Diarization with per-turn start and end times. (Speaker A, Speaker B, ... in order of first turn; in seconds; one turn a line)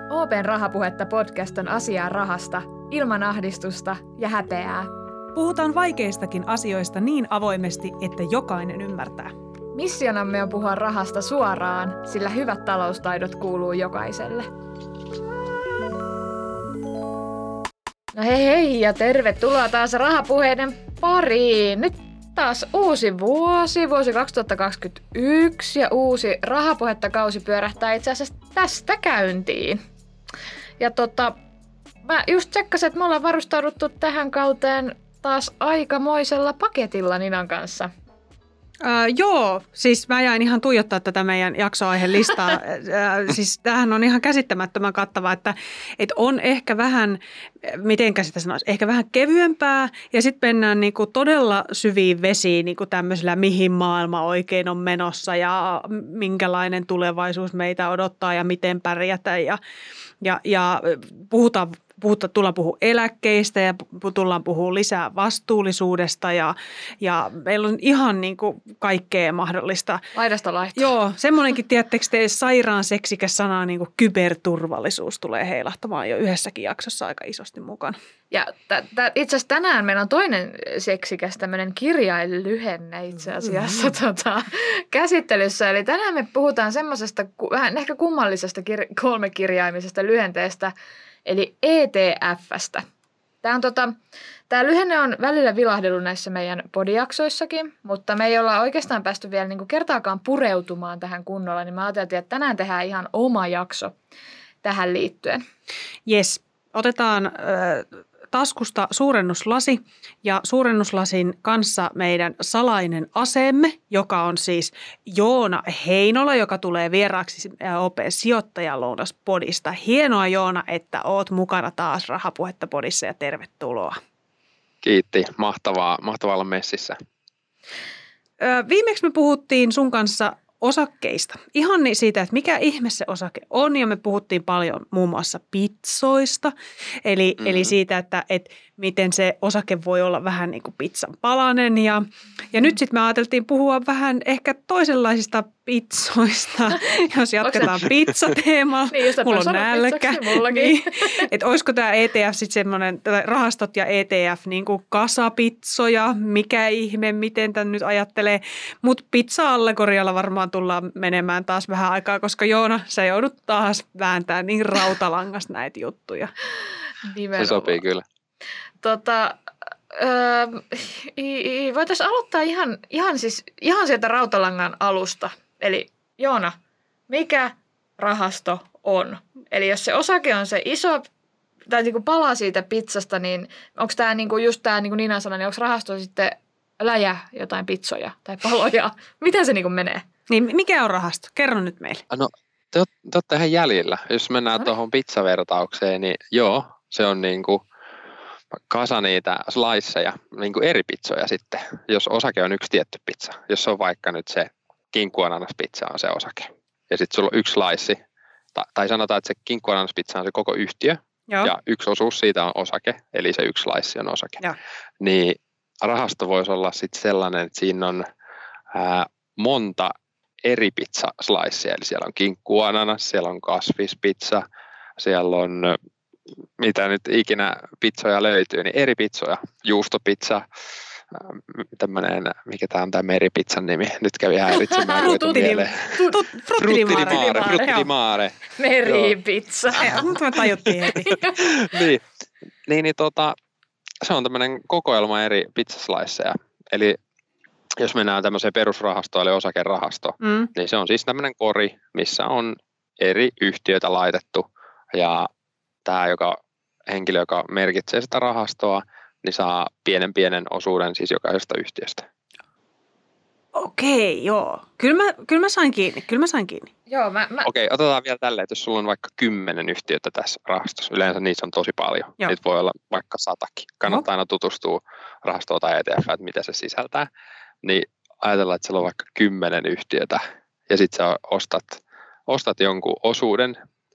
Speaker A: 0.1-4.9
Speaker B: 5.3-9.3
Speaker A: 9.7-14.5
Speaker A: 18.1-29.8
Speaker A: 30.8-31.4
Speaker A: 32.0-37.9
Speaker B: 38.8-59.6
Speaker B: 60.2-70.0
Speaker A: 70.1-70.9
Speaker B: 70.7-78.0
Speaker A: 78.3-90.7
Speaker A: 91.2-92.8
Speaker A: 93.4-94.0
Speaker A: 94.5-103.9
Speaker A: 104.6-105.4
Speaker B: 106.1-124.0
Speaker C: 124.8-127.0
Speaker B: 128.4-136.5
Speaker B: 137.0-166.3
Speaker C: 137.4-137.7
Speaker A: 147.4-147.7
Speaker A: 148.9-151.3
Speaker A: 167.0-167.8
Speaker C: 167.3-168.0
Speaker A: 168.8-176.5
Speaker A: 177.1-181.1
Speaker A: 181.7-190.1
Speaker B: 190.3-192.0
Speaker C: 192.1-197.6
Speaker C: 198.5-208.0
Speaker C: 208.5-214.4
Speaker B: 211.3-211.5
Speaker C: 215.0-218.1
Speaker C: 218.7-219.9
Speaker C: 220.4-224.4
Speaker C: 225.0-225.8
Speaker C: 226.6-230.4
Speaker C: 231.1-235.9
Speaker A: 234.5-236.2
Speaker B: 235.0-237.9
Speaker C: 236.6-239.1
Speaker A: 236.9-237.8
Speaker A: 238.6-239.8
Speaker B: 239.7-241.2
Speaker C: 240.9-242.1
Speaker C: 242.7-243.3
Speaker C: 244.0-247.0
Speaker C: 247.8-255.3
Speaker B: 250.2-250.5
Speaker C: 255.8-262.1
Speaker B: 263.5-266.7
Speaker A: 266.9-267.5
Speaker C: 267.4-277.1
Speaker C: 277.6-283.6